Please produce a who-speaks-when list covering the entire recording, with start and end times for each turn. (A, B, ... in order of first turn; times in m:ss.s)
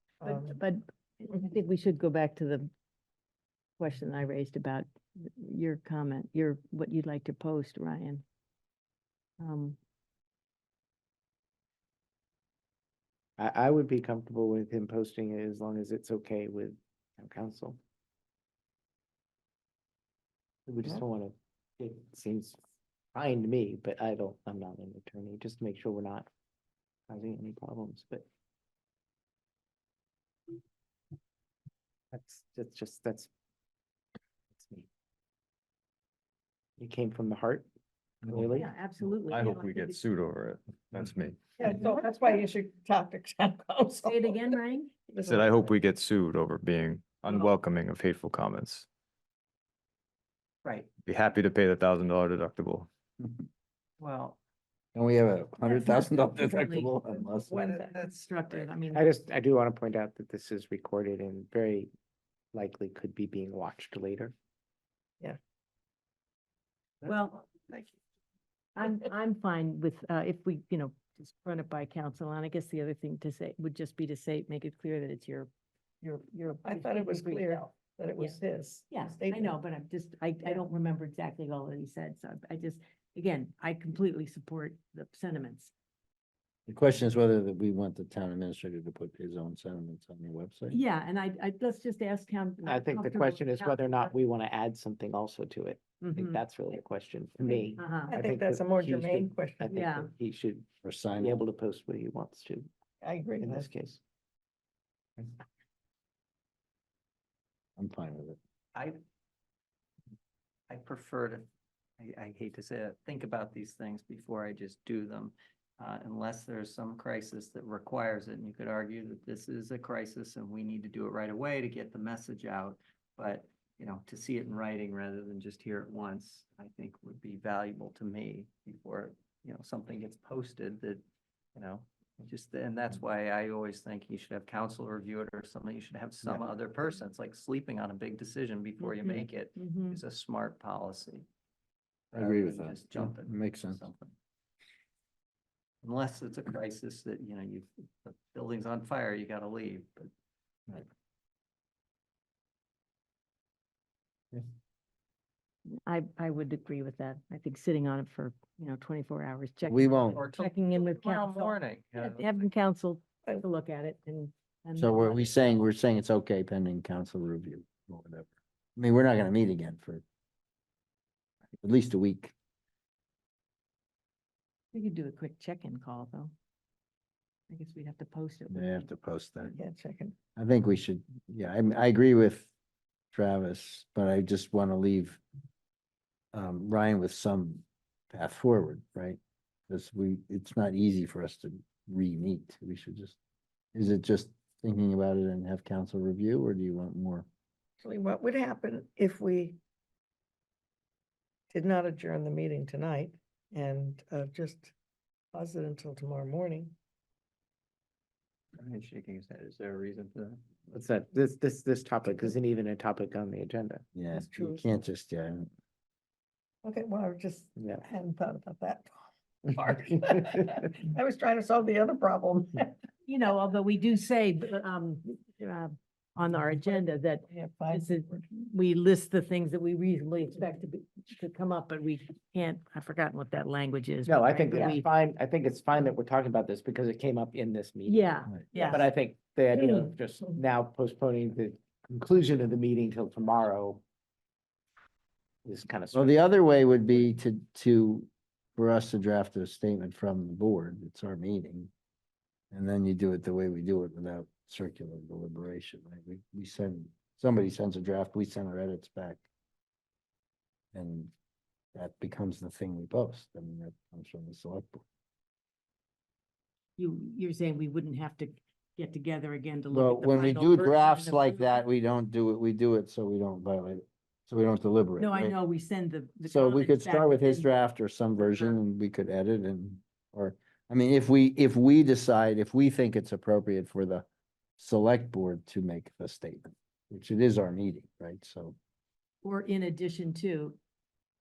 0:00.2-0:00.6 A
0:00.2-0:02.7 B
0:03.8-0:08.2 B
0:09.4-0:09.8 B
0:13.4-0:17.8 C
0:20.7-0:22.6 C
0:23.1-0:26.3 C
0:27.1-0:28.3 C
0:32.1-0:33.3 C
0:34.5-0:34.9 C
0:36.8-0:37.7 C
0:38.2-0:38.7 C
0:38.5-0:40.0 B
0:39.1-0:41.4 D
0:41.6-0:45.8 A
0:44.0-0:45.1 B
0:45.2-0:48.9 D
0:51.0-0:52.9 D
0:54.0-0:54.4 E
0:54.9-0:57.6 F
0:55.6-0:59.1 B
0:57.5-0:58.7 E
0:58.9-1:01.9 C
1:02.5-1:04.3 C
1:07.0-1:07.5 B
1:08.8-1:15.5 B
1:16.0-1:17.6 B
1:16.6-1:19.6 A
1:18.9-1:25.7 B
1:26.7-1:30.8 F
1:30.7-1:34.1 B
1:32.6-1:40.7 C
1:36.0-1:36.4 B
1:37.7-1:38.2 B
1:38.1-1:39.7 A
1:39.7-1:40.1 B
1:40.8-1:41.4 F
1:41.2-1:42.7 C
1:43.0-1:43.7 A
1:43.4-1:44.0 C
1:47.8-1:48.4 F
1:50.7-1:51.5 E
1:52.0-2:11.0 E
2:11.6-2:21.2 E
2:18.8-2:20.0 B
2:22.1-2:24.1 E
2:22.1-2:23.8 F
2:25.8-2:30.1 E
2:35.8-2:45.4 B
2:39.7-2:40.2 F
2:40.1-2:42.3 E
2:44.8-2:50.0 F
2:51.6-2:52.3 F
2:54.7-2:56.3 B
2:57.5-2:58.8 B
2:58.5-2:59.5 F
2:59.6-3:00.1 A
3:00.4-3:02.5 F
3:03.1-3:05.2 F
3:06.3-3:09.2 F
3:09.7-3:13.2 F
3:13.7-3:17.2 F
3:17.8-3:19.6 A
3:21.5-3:24.7 A
3:25.3-3:26.7 A
3:28.6-3:30.5 E
3:30.7-3:33.8 C
3:33.9-3:35.5 F
3:34.1-3:34.6 A
3:36.6-3:39.0 A
3:37.6-3:37.8 C
3:39.5-3:42.7 A
3:43.0-3:54.8 B
3:46.6-3:48.2 A
3:54.0-4:03.8 C
3:57.8-3:58.9 B
3:59.5-3:59.9 B
4:05.4-4:06.2 C
4:05.9-4:11.7 F
4:12.5-4:19.3 F
4:20.7-4:21.1 F
4:21.7-4:24.8 F
4:26.8-4:31.6 B
4:29.7-4:35.4 F
4:35.0-4:37.5 B
4:36.2-4:44.0 F
4:38.2-4:38.6 B
4:44.6-4:48.6 F
4:49.2-4:50.6 B